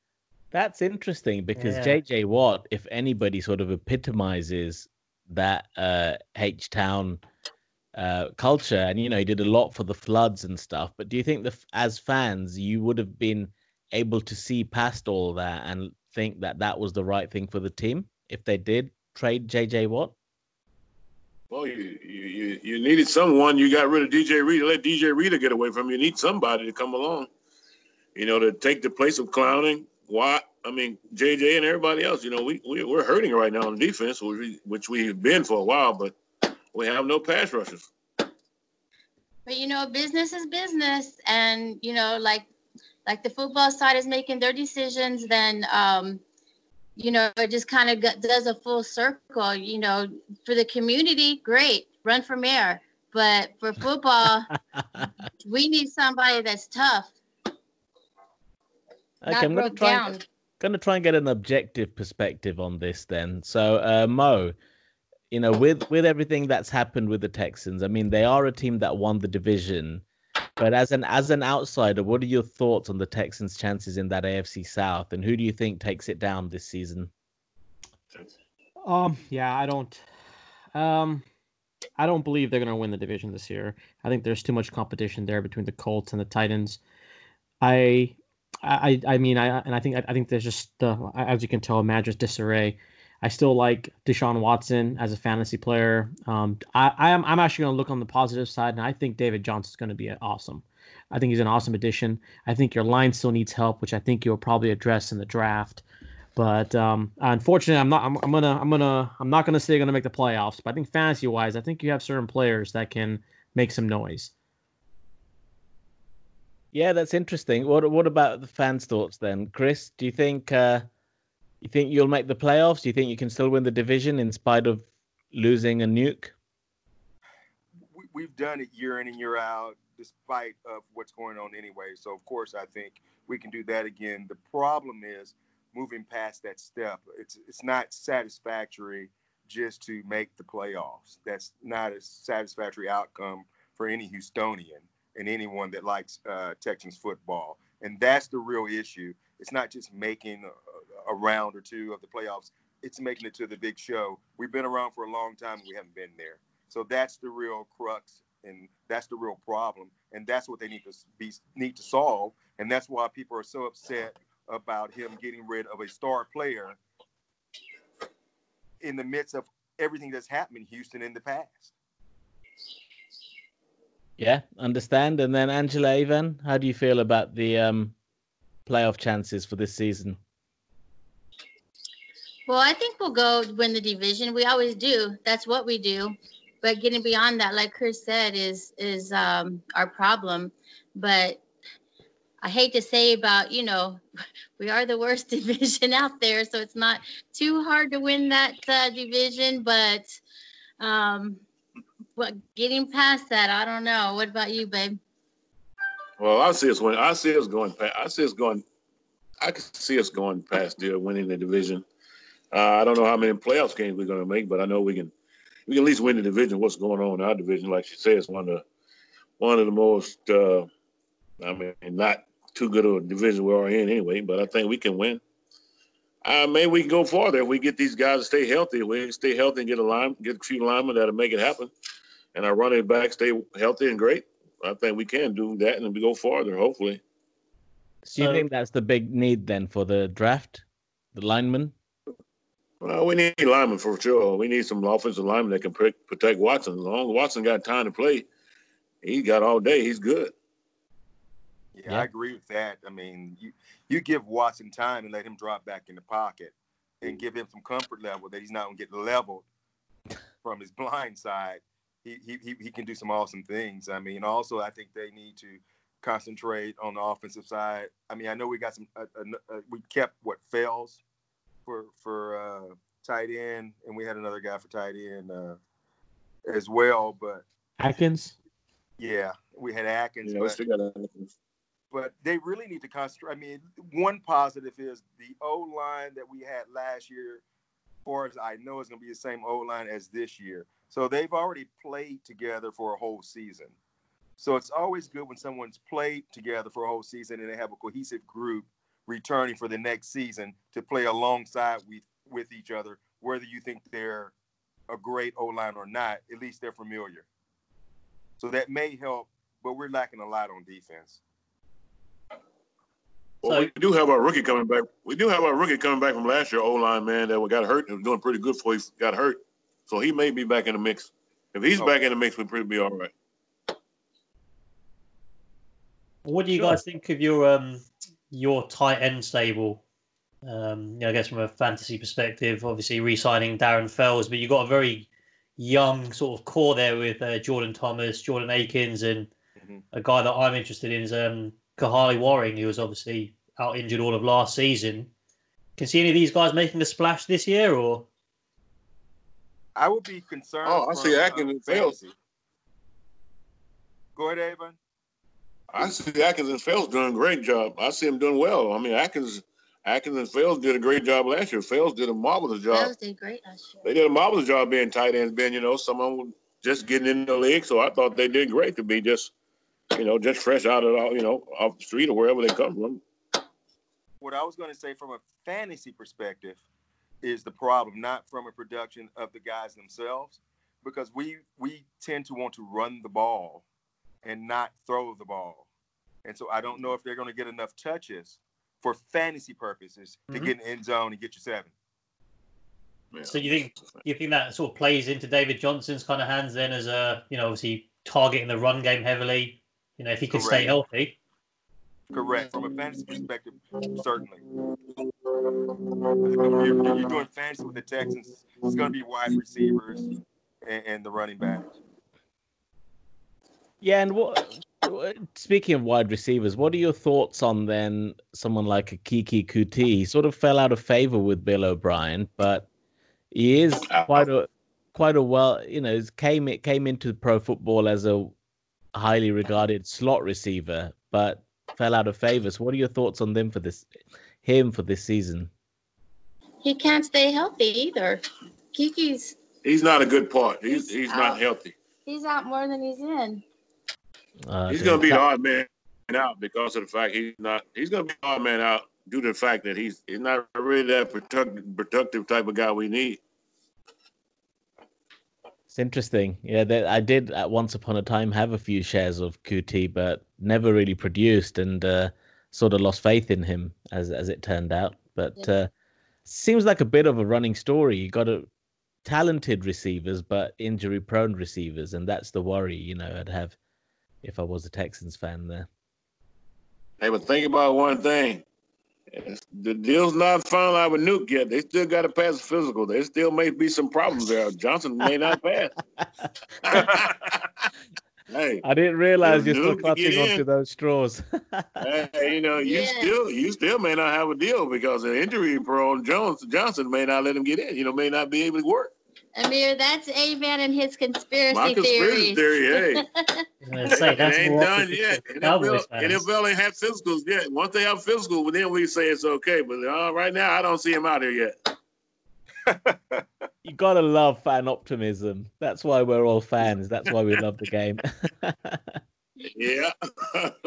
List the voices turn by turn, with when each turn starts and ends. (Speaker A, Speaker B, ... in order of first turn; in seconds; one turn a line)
Speaker A: 0.5-7.2
Speaker B: 1.6-2.0
Speaker A: 8.0-20.1
Speaker C: 21.5-27.3
Speaker C: 28.1-36.1
Speaker C: 36.7-37.9
Speaker D: 39.5-42.5
Speaker D: 43.0-46.2
Speaker D: 47.0-54.5
Speaker D: 55.4-57.1
Speaker A: 59.2-64.5
Speaker D: 59.3-60.2
Speaker A: 65.3-70.0
Speaker A: 70.6-77.1
Speaker E: 78.8-80.0
Speaker E: 80.7-81.2
Speaker E: 82.0-86.8
Speaker E: 87.6-105.8
Speaker E: 106.3-114.3
Speaker A: 116.7-120.8
Speaker A: 121.6-126.3
Speaker F: 127.9-166.8
Speaker F: 168.8-171.7
Speaker A: 174.2-177.9
Speaker A: 178.7-180.2
Speaker D: 182.5-191.4
Speaker D: 192.4-194.0
Speaker D: 194.6-200.2
Speaker D: 200.8-201.4
Speaker D: 202.2-205.0
Speaker C: 206.2-208.6
Speaker C: 209.4-211.8
Speaker C: 212.5-215.1
Speaker C: 215.7-218.6
Speaker C: 219.4-220.7
Speaker C: 221.4-225.2
Speaker C: 226.2-231.7
Speaker C: 232.3-237.0
Speaker A: 238.1-241.7
Speaker B: 238.2-238.4
Speaker C: 242.8-248.3
Speaker C: 249.0-250.3
Speaker F: 251.7-259.4
Speaker F: 260.4-271.0
Speaker F: 271.6-275.6
Speaker F: 276.4-277.4
Speaker E: 277.8-278.3
Speaker F: 279.0-280.6
Speaker C: 280.2-281.3
Speaker F: 281.9-287.4
Speaker F: 288.0-293.7
Speaker F: 294.4-304.3
Speaker F: 304.9-307.2
Speaker F: 308.4-311.2
Speaker C: 313.4-323.1
Speaker B: 313.4-313.7
Speaker B: 326.2-329.8
Speaker B: 330.4-335.1
Speaker B: 335.6-339.3
Speaker B: 339.9-345.1
Speaker B: 345.8-348.1
Speaker F: 349.8-352.1
Speaker C: 350.6-352.0
Speaker F: 354.1-354.8
Speaker C: 355.7-362.9
Speaker D: 362.7-363.8
Speaker C: 363.8-369.3
Speaker C: 369.9-373.0
Speaker F: 374.2-376.6
Speaker F: 377.2-383.6
Speaker F: 384.2-385.6
Speaker F: 386.2-391.7
Speaker C: 393.1-394.0
Speaker B: 393.2-401.1
Speaker F: 400.3-400.7
Speaker F: 402.1-404.4
Speaker F: 406.3-410.0
Speaker F: 410.6-411.6
Speaker A: 413.8-422.7
Speaker A: 423.3-428.3
Speaker C: 423.9-424.3
Speaker A: 428.9-433.9
Speaker A: 434.4-435.5
Speaker D: 436.6-439.4
Speaker C: 439.6-441.7
Speaker D: 440.7-441.4
Speaker D: 442.1-443.4
Speaker A: 444.5-445.2
Speaker C: 444.7-453.2
Speaker A: 455.7-465.7
Speaker A: 466.2-468.5
Speaker A: 469.0-473.6
Speaker A: 474.2-475.7
Speaker C: 477.0-478.4
Speaker C: 479.1-485.7
Speaker C: 486.6-487.4
Speaker C: 488.3-488.6
Speaker A: 488.6-491.8
Speaker C: 489.2-490.4
Speaker C: 491.8-498.9
Speaker D: 492.6-493.1
Speaker D: 499.3-503.4
Speaker C: 501.5-503.0
Speaker B: 503.6-506.2
Speaker C: 503.9-511.5
Speaker F: 512.6-513.2
Speaker A: 513.6-519.0
Speaker C: 519.5-520.5